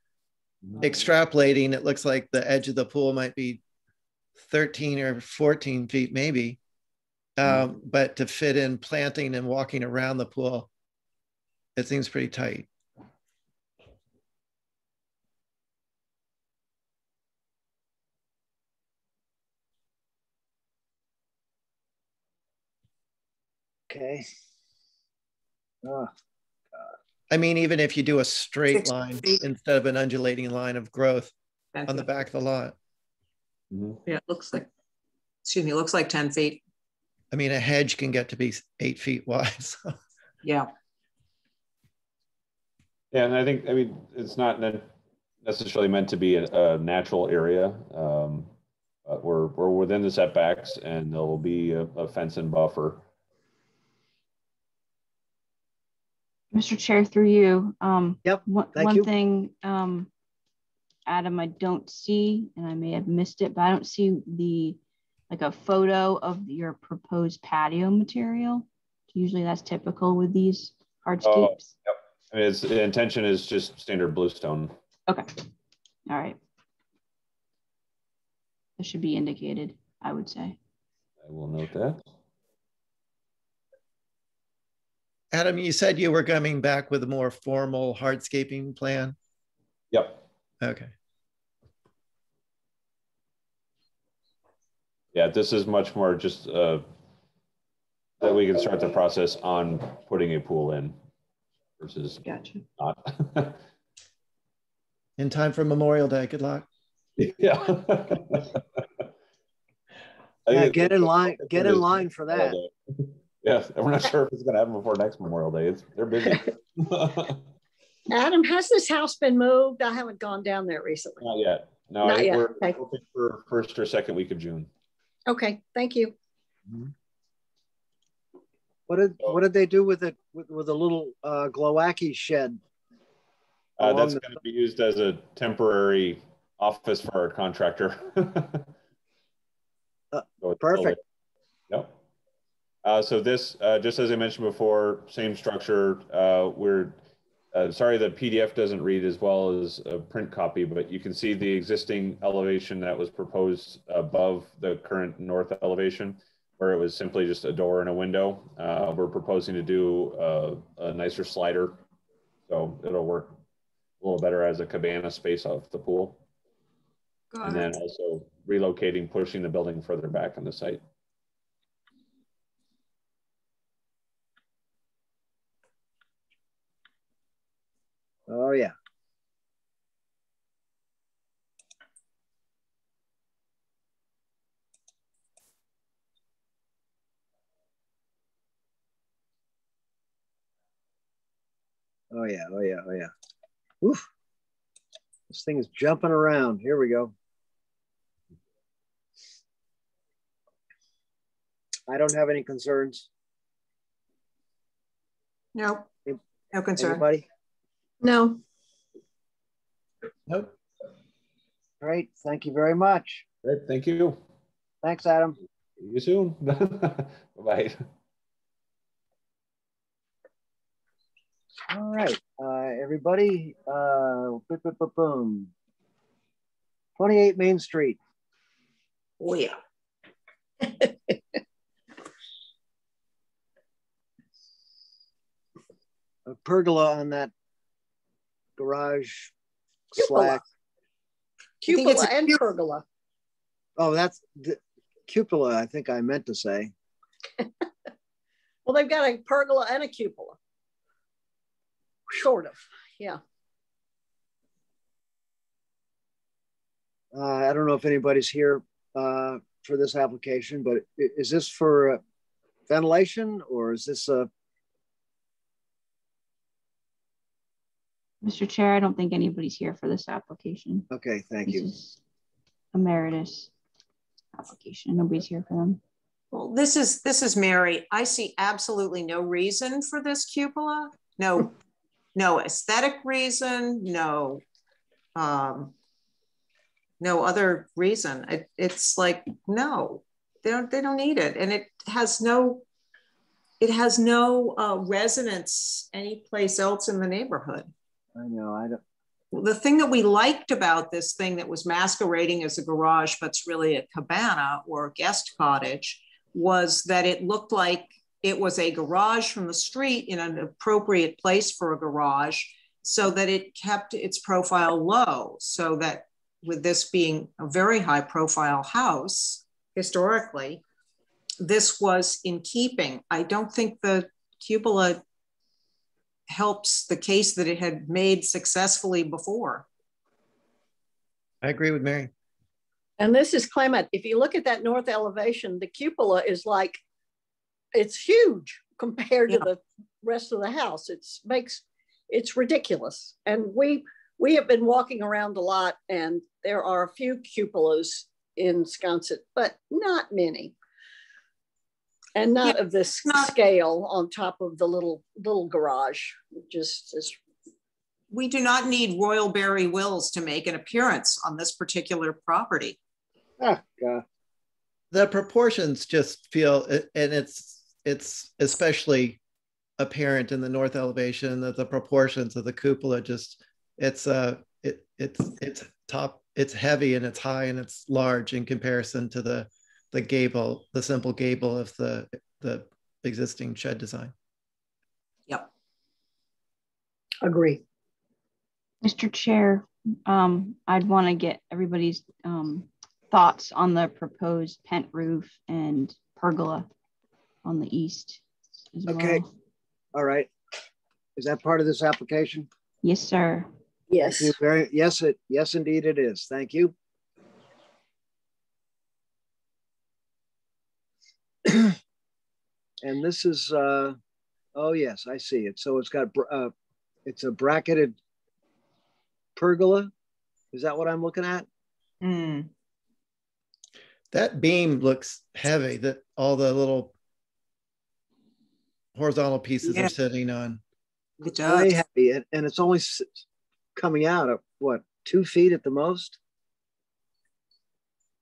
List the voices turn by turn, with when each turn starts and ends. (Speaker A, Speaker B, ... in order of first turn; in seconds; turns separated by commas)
Speaker A: 0.6-1.1, Speaker B: 0.8-3.6, Speaker B: 4.4-6.6, Speaker B: 7.4-10.7, Speaker B: 11.8-12.7, Speaker C: 23.9-24.3, Speaker C: 25.8-26.1, Speaker B: 27.3-31.3, Speaker D: 28.8-29.4, Speaker D: 31.7-32.1, Speaker B: 31.9-32.8, Speaker A: 33.7-34.0, Speaker D: 34.1-34.7, Speaker D: 35.5-36.6, Speaker B: 37.3-40.0, Speaker D: 40.4-40.7, Speaker A: 43.1-44.9, Speaker A: 45.4-48.5, Speaker A: 49.1-53.0, Speaker E: 56.5-60.1, Speaker C: 58.2-59.1, Speaker E: 61.1-64.8, Speaker E: 65.3-71.8, Speaker A: 71.2-74.8, Speaker E: 76.1-76.4, Speaker E: 78.8-80.6, Speaker A: 81.2-82.0, Speaker B: 85.3-89.2, Speaker A: 89.9-90.2, Speaker B: 90.6-90.9, Speaker A: 95.1-96.9, Speaker A: 98.2-101.0, Speaker A: 101.8-102.2, Speaker E: 102.3-102.6, Speaker A: 102.8-103.6, Speaker B: 105.2-106.7, Speaker A: 107.2-108.8, Speaker A: 110.5-117.4, Speaker C: 110.5-112.6, Speaker F: 118.1-121.2, Speaker A: 121.2-124.7, Speaker F: 122.0-122.8, Speaker F: 125.3-126.1, Speaker C: 128.9-132.6, Speaker A: 133.8-138.7, Speaker C: 133.8-134.2, Speaker C: 140.1-141.0, Speaker A: 140.4-141.0, Speaker A: 141.7-142.0, Speaker A: 142.8-147.0, Speaker A: 147.5-161.8, Speaker A: 162.5-163.4, Speaker A: 164.0-166.2, Speaker D: 167.3-167.7, Speaker A: 167.4-170.8, Speaker C: 178.3-178.7, Speaker C: 192.1-193.1, Speaker C: 195.3-197.1, Speaker C: 201.9-203.1, Speaker D: 205.6-205.9, Speaker D: 206.5-207.1, Speaker C: 206.8-207.2, Speaker F: 208.0-208.4, Speaker B: 210.3-210.5, Speaker C: 211.8-213.2, Speaker A: 213.4-214.2, Speaker C: 214.8-215.4, Speaker A: 215.8-217.8, Speaker C: 221.7-225.5, Speaker C: 227.0-228.0, Speaker D: 229.2-229.6, Speaker C: 236.3-237.3, Speaker C: 238.6-239.3, Speaker C: 239.9-240.4, Speaker F: 240.0-240.4, Speaker F: 241.6-242.8, Speaker D: 241.7-242.4, Speaker C: 243.8-246.7, Speaker F: 248.7-250.4, Speaker F: 252.1-253.2, Speaker C: 257.1-262.0, Speaker C: 262.7-264.3, Speaker E: 268.2-270.9, Speaker C: 270.9-271.6, Speaker E: 271.5-272.0, Speaker E: 272.7-273.5, Speaker E: 274.4-275.8, Speaker D: 276.3-281.6, Speaker D: 282.1-284.4, Speaker D: 285.1-285.7, Speaker D: 287.0-292.7, Speaker D: 293.6-297.7, Speaker C: 298.2-298.8, Speaker D: 299.3-320.6, Speaker D: 321.4-325.0, Speaker D: 326.3-329.7, Speaker B: 331.4-332.1, Speaker F: 333.0-336.8, Speaker F: 337.7-350.6, Speaker F: 352.1-357.2, Speaker D: 353.1-353.3, Speaker D: 358.1-362.8, Speaker C: 363.4-364.0, Speaker B: 364.9-369.2, Speaker B: 369.8-384.1, Speaker F: 387.2-387.6, Speaker E: 388.8-396.7, Speaker E: 397.4-398.2, Speaker E: 398.7-399.3, Speaker C: 398.9-399.2, Speaker C: 399.9-400.3, Speaker C: 401.2-402.5, Speaker E: 402.8-403.5, Speaker F: 403.9-404.4, Speaker C: 404.0-406.7, Speaker C: 411.4-411.8, Speaker C: 412.8-414.0, Speaker C: 414.6-416.5, Speaker C: 417.1-418.0, Speaker C: 419.4-419.9, Speaker C: 420.5-421.5, Speaker D: 422.0-422.5, Speaker B: 424.1-426.9, Speaker B: 428.9-430.6, Speaker D: 429.6-429.9, Speaker D: 431.2-431.8, Speaker C: 431.4-433.2, Speaker C: 433.8-436.2